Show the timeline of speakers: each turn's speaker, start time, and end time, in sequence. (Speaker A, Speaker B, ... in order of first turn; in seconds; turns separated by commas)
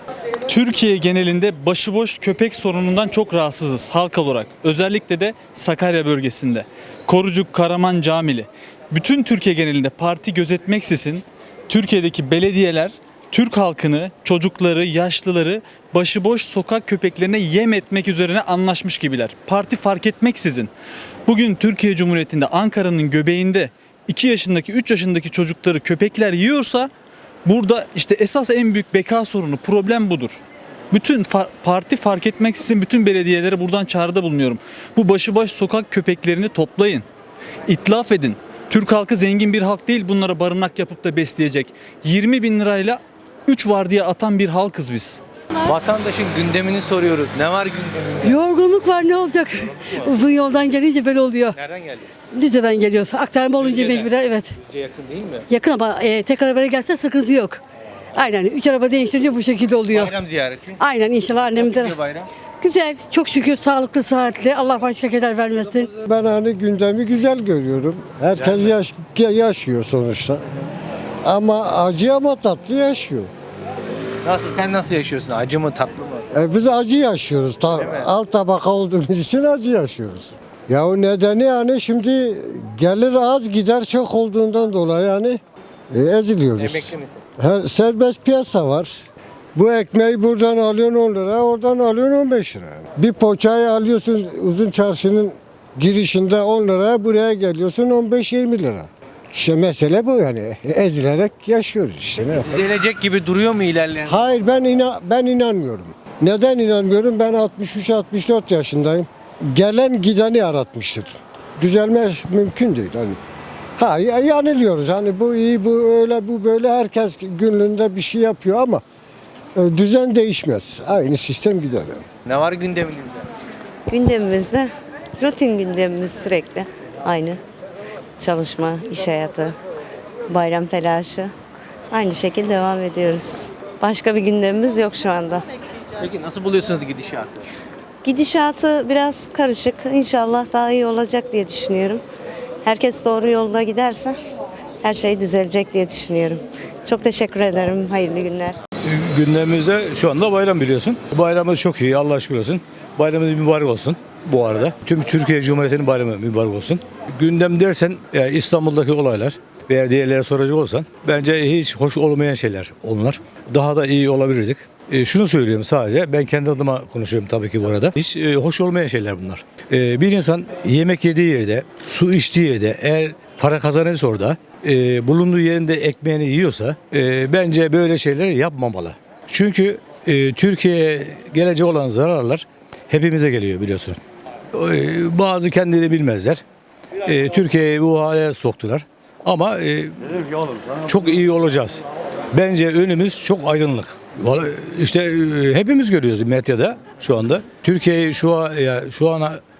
Speaker A: 0.5-20.7, Speaker A: 21.3-26.9, Speaker A: 27.4-30.4, Speaker A: 30.9-37.0, Speaker A: 37.7-45.2, Speaker B: 45.6-48.4, Speaker C: 48.2-51.6, Speaker B: 49.6-50.3, Speaker B: 51.5-52.1, Speaker C: 52.3-54.5, Speaker B: 53.5-55.5, Speaker C: 55.5-57.6, Speaker C: 58.1-60.1, Speaker B: 59.9-60.8, Speaker C: 60.8-62.0, Speaker B: 61.4-62.3, Speaker C: 62.6-66.0, Speaker D: 66.0-70.4, Speaker B: 68.3-68.8, Speaker D: 71.2-73.3, Speaker B: 74.2-76.3, Speaker D: 76.3-85.4, Speaker B: 77.7-78.1, Speaker D: 85.9-89.0, Speaker B: 86.5-87.2, Speaker D: 89.5-102.5, Speaker B: 102.4-104.4, Speaker D: 104.1-113.2, Speaker D: 113.8-118.8, Speaker D: 119.5-122.0, Speaker B: 122.2-123.3, Speaker E: 123.9-124.7, Speaker E: 125.2-127.4, Speaker E: 128.2-129.5, Speaker E: 130.3-131.3, Speaker E: 131.9-135.4, Speaker B: 136.0-137.5, Speaker E: 138.0-142.0, Speaker E: 142.6-144.1, Speaker E: 144.8-148.6, Speaker F: 148.8-184.0, Speaker F: 184.5-186.4, Speaker F: 187.0-190.2, Speaker F: 190.8-199.4